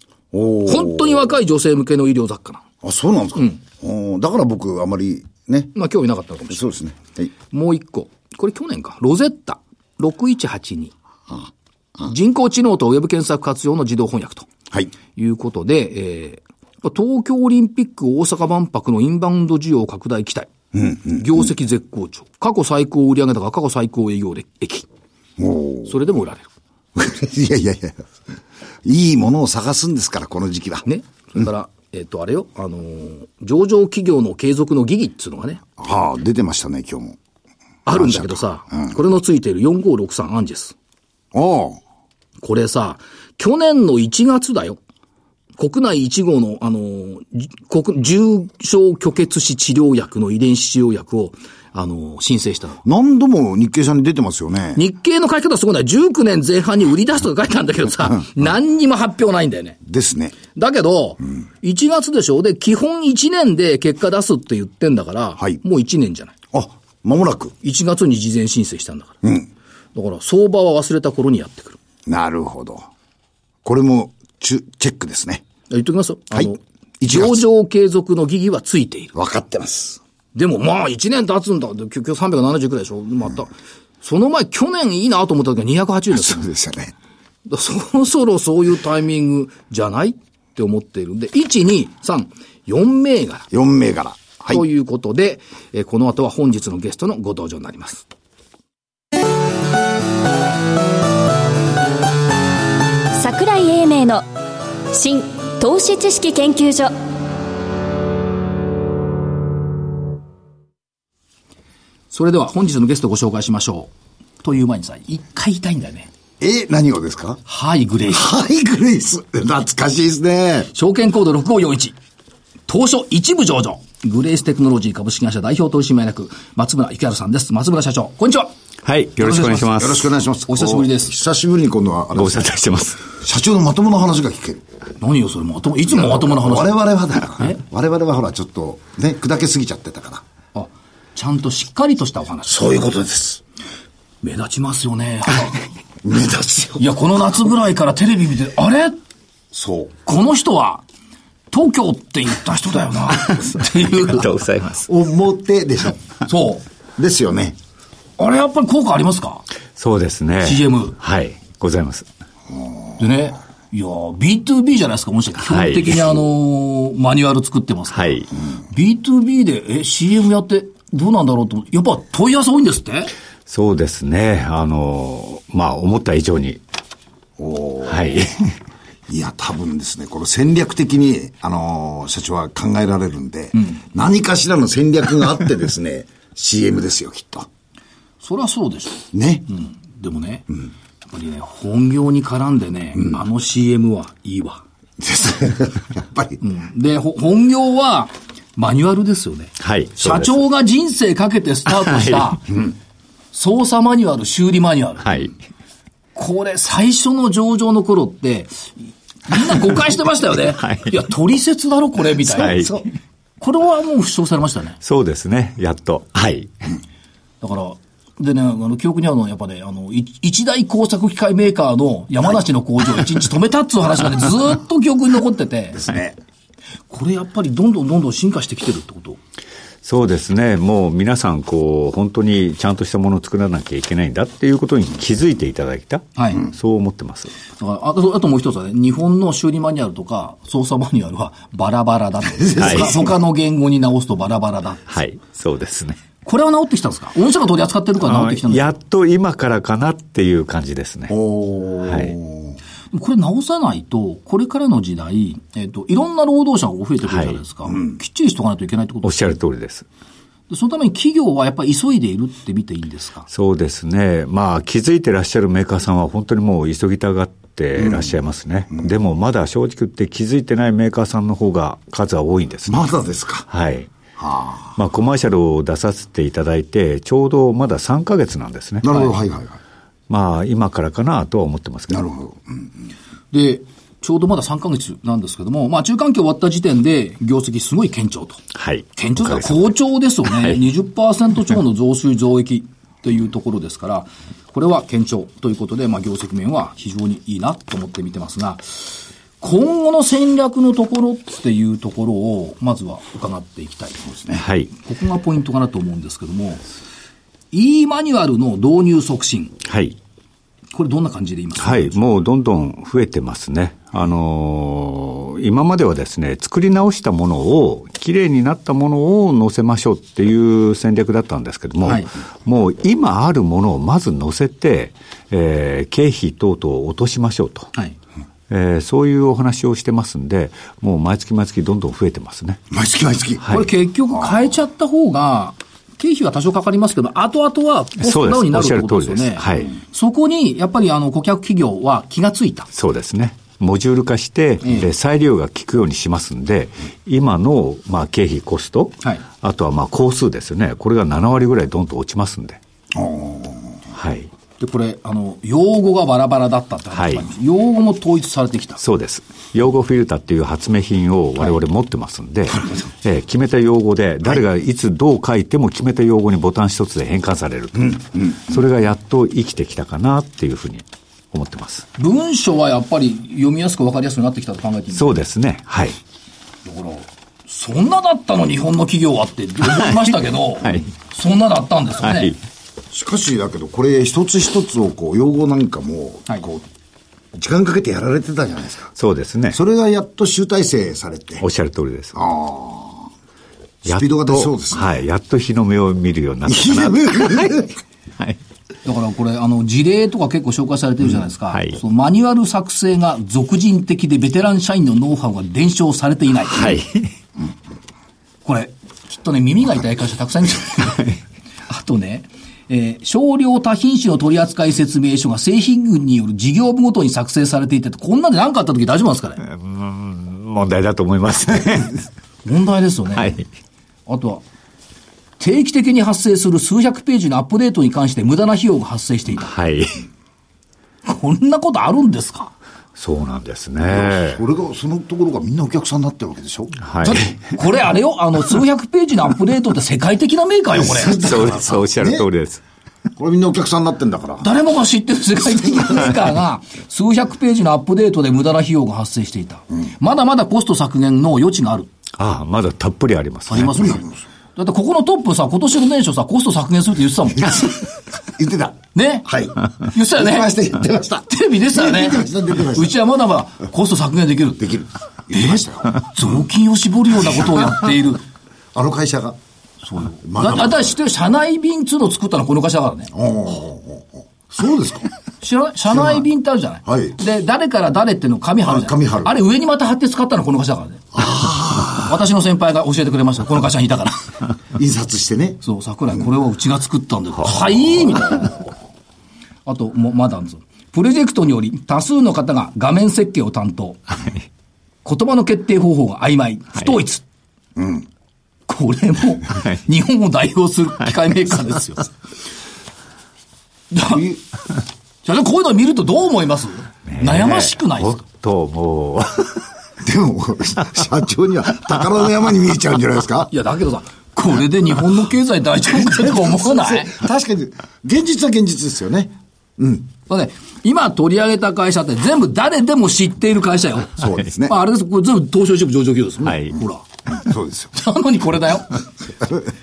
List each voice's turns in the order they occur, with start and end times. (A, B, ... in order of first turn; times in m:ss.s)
0:00.3-0:01.3 A
0:00.6-0:02.6 B
0:02.8-0:05.7 A
0:05.8-0:06.7 B
0:06.5-0:07.3 A
0:07.5-0:10.9 B
0:12.0-0:14.5 B
0:15.1-0:20.5 B
0:20.7-0:21.4 A
0:21.1-0:24.9 B
0:25.4-0:25.9 A
0:25.9-0:26.5 B
0:27.0-0:28.0 A
0:28.8-0:30.9 A
0:30.8-0:35.6 B
0:35.8-0:37.2 A
0:37.8-0:40.8 B
0:37.9-0:38.9 A
0:41.3-0:41.8 A
0:42.4-0:44.8 B
0:45.6-0:52.8 B
0:52.8-0:54.8 A
0:54.8-0:59.8 B
0:59.8-1:00.4 A
1:00.5-1:06.3 B
1:06.5-1:07.5 A
1:07.6-1:09.2 B
1:10.0-1:11.8 B
1:12.0-1:12.9 A
1:13.6-1:15.4 A
1:15.7-1:19.1 B
1:16.3-1:17.4 A
1:19.1-1:20.0 A
1:20.4-1:26.5 B
1:26.1-1:26.9 A
1:27.5-1:33.5 B
1:33.5-1:34.6 A
1:34.5-1:38.0 B
1:43.2-1:44.2 C
1:44.9-1:46.9 C
1:52.1-1:53.9 B
1:54.4-1:56.1 B
1:56.4-1:57.4 A
1:57.5-1:58.3 B
1:58.1-2:00.7 A
2:00.7-2:02.0 B
2:02.7-2:08.5 B
2:08.8-2:10.1 D
2:09.2-2:09.8 B
2:09.6-2:12.5 A
2:10.5-2:11.1 B
2:12.1-2:13.0 D
2:13.0-2:14.6 A
2:15.0-2:16.8 B
2:15.9-2:20.2 A
2:20.5-2:22.6 B
2:22.5-2:23.4 A
2:24.2-2:25.6 B
2:26.0-2:26.9 A
2:26.8-2:29.0 B
2:29.5-2:29.9 A
2:30.0-2:30.8 B
2:31.5-2:34.3 B
2:33.9-2:34.9 D
2:34.9-2:36.0 A
2:36.2-2:36.6 B
2:37.0-2:37.6 A
2:38.2-2:39.4 B
2:39.8-2:42.1 D
2:40.4-2:41.0 B
2:43.0-2:53.1 B
2:45.5-2:46.1 D
2:47.9-2:48.3 D
2:53.5-2:56.6 D
2:57.4-2:58.2 A
2:57.9-2:58.5 D
2:59.1-3:07.5 A
3:08.2-3:10.5 B
3:09.1-3:09.5 A
3:11.0-3:14.6 B
3:15.0-3:16.4 A
3:16.4-3:22.5 B
3:19.6-3:20.4 D
3:21.8-3:22.3 D
3:23.3-3:25.2 B
3:25.0-3:25.3 D
3:26.2-3:32.8 B
3:30.6-3:31.0 D
3:32.2-3:32.8 D
3:33.4-3:34.8 B
3:34.8-3:36.5 D
3:37.4-3:45.8 B
3:45.7-3:46.2 A
3:46.9-3:49.2 B
3:49.8-3:57.3 D
3:56.2-3:56.5 B
3:57.6-4:04.9 B
4:02.4-4:03.1 A
4:02.6-4:03.0 D
4:04.9-4:06.0 D
4:06.2-4:08.7 B
4:08.0-4:11.2 D
4:11.1-4:12.6 A
4:11.8-4:12.2 D
4:12.9-4:19.3 B
4:17.0-4:17.4 D
4:19.0-4:19.8 D
4:20.5-4:23.3 B
4:23.3-4:32.9 D
4:27.8-4:28.1 A
4:32.7-4:33.5 A
4:33.5-4:33.9 D
4:34.2-4:34.8 A
4:34.8-4:39.1 D
4:38.8-4:39.6 A
4:40.1-4:42.1 D
4:41.9-4:42.7 A
4:43.3-4:48.4 B
4:48.5-4:49.8 D
4:49.0-5:06.6 B
4:50.2-4:50.6 D
5:04.3-5:04.7 D
5:07.5-5:09.6 B
5:09.6-5:10.0 D
5:10.7-5:12.2 B
5:11.6-5:27.7 D
5:21.8-5:22.1 B
5:28.5-5:32.6 D
5:32.7-5:33.5 A
5:33.5-5:42.7 B
5:38.0-5:39.7 D
5:42.7-5:52.6 D
5:52.9-5:53.8 A
5:53.9-5:54.3 D
5:54.6-5:58.8 B
5:57.0-5:57.2 D
5:58.8-6:11.9 D
6:12.0-6:15.2 B
6:14.9-6:16.0 D
6:16.6-6:22.3 B
6:22.0-6:22.4 D
6:22.9-6:26.6 A
6:27.3-6:28.9 A
6:29.0-6:29.6 D
6:29.5-6:31.4 A
6:31.4-6:32.2 D
6:32.2-6:33.1 A
6:33.8-6:34.9 A
6:33.8-6:37.7 D
6:36.5-6:37.8 A
6:38.8-6:46.8 B
6:41.5-6:41.8 D
6:46.5-6:47.1 D
6:48.4-6:51.2 B
6:51.7-6:59.4 B
6:59.4-7:02.0 D
7:02.4-7:03.4 B
7:03.2-7:03.4 D
7:04.1-7:04.4 B
7:05.4-7:09.5 B
7:09.4-7:10.0 D
7:11.0-7:12.5 B
7:13.0-7:14.4 D
7:13.9-7:16.8 A
7:16.8-7:17.3 D
7:17.0-7:21.4 B
7:20.8-7:22.2 A
7:21.0-7:22.6 D
7:23.2-7:24.5 A
7:24.4-7:31.9 B
7:32.2-7:34.0 D
7:33.5-7:34.0 B
7:33.7-7:34.1 A
7:34.6-7:37.7 B
7:38.2-7:39.5 A
7:39.0-7:39.3 B
7:39.8-7:40.5 B
7:40.1-7:43.0 A
7:41.3-7:44.7 B
7:44.6-7:46.0 A
7:45.3-7:48.2 B
7:48.7-7:49.4 A
7:49.8-7:53.1 B
7:50.2-7:50.9 A
7:53.1-7:55.1 A
7:55.4-8:01.2 B
7:55.9-7:56.2 A
7:56.8-7:57.2 A
7:58.6-7:59.3 A
8:01.1-8:02.1 A
8:01.9-8:04.2 B
8:04.8-8:05.6 A
8:05.6-8:08.6 B
8:09.7-8:14.1 B
8:15.0-8:17.2 B
8:17.8-8:18.0 A
8:18.7-8:22.1 B
8:23.9-8:24.3 B
8:24.1-8:24.4 A
8:25.2-8:28.2 B
8:27.1-8:29.6 D
8:30.0-8:33.5 A
8:33.5-8:37.1 B
8:36.0-8:40.1 A
8:40.3-8:47.0 B
8:44.2-8:44.8 A
8:46.4-8:46.8 D
8:47.3-8:47.9 A
8:47.9-8:49.0 B